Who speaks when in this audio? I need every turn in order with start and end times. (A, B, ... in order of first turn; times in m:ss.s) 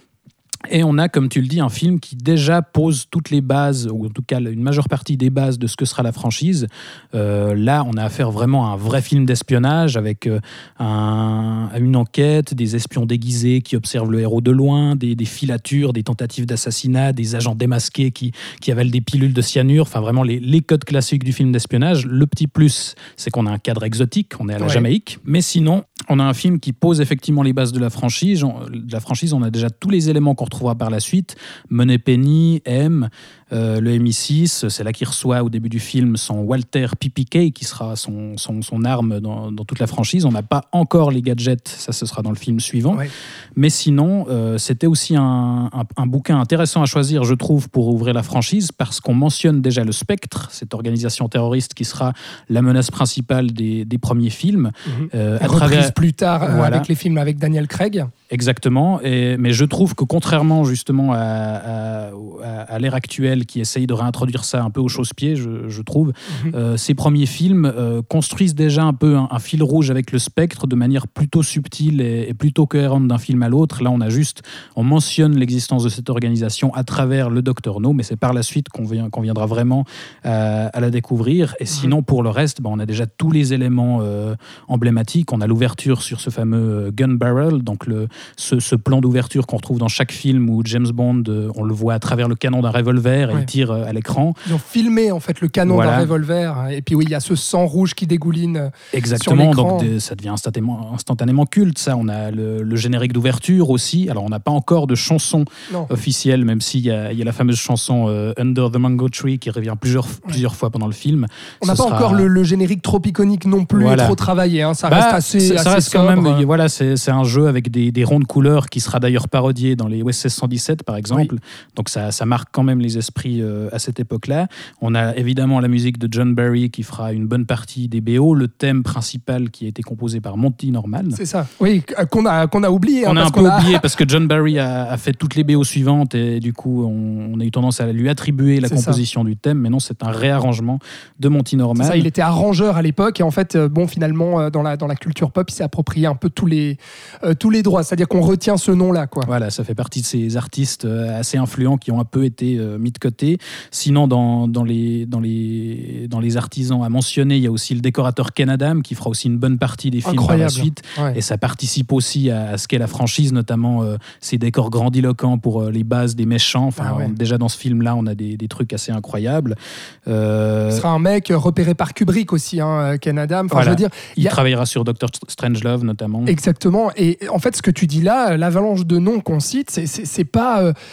0:00.7-0:56.9 A
0:24.6-0:24.9 B
0:54.8-0:58.1 B
0:58.3-1:34.4 A
1:06.3-1:06.5 B
1:21.7-1:22.0 B
1:34.4-1:39.9 B
1:35.6-1:36.1 A
1:38.9-1:52.3 A
1:51.6-1:56.4 B
1:53.7-1:54.2 A
1:54.9-2:11.2 A
2:11.1-2:13.8 B
2:13.0-2:22.1 A
2:18.6-2:19.0 B
2:21.8-2:29.3 B
2:29.2-2:49.6 A
2:40.0-2:41.2 B
2:46.8-2:47.1 B
2:50.1-2:50.9 A
2:50.7-2:54.4 B
2:53.5-2:56.3 A
2:56.2-3:00.7 B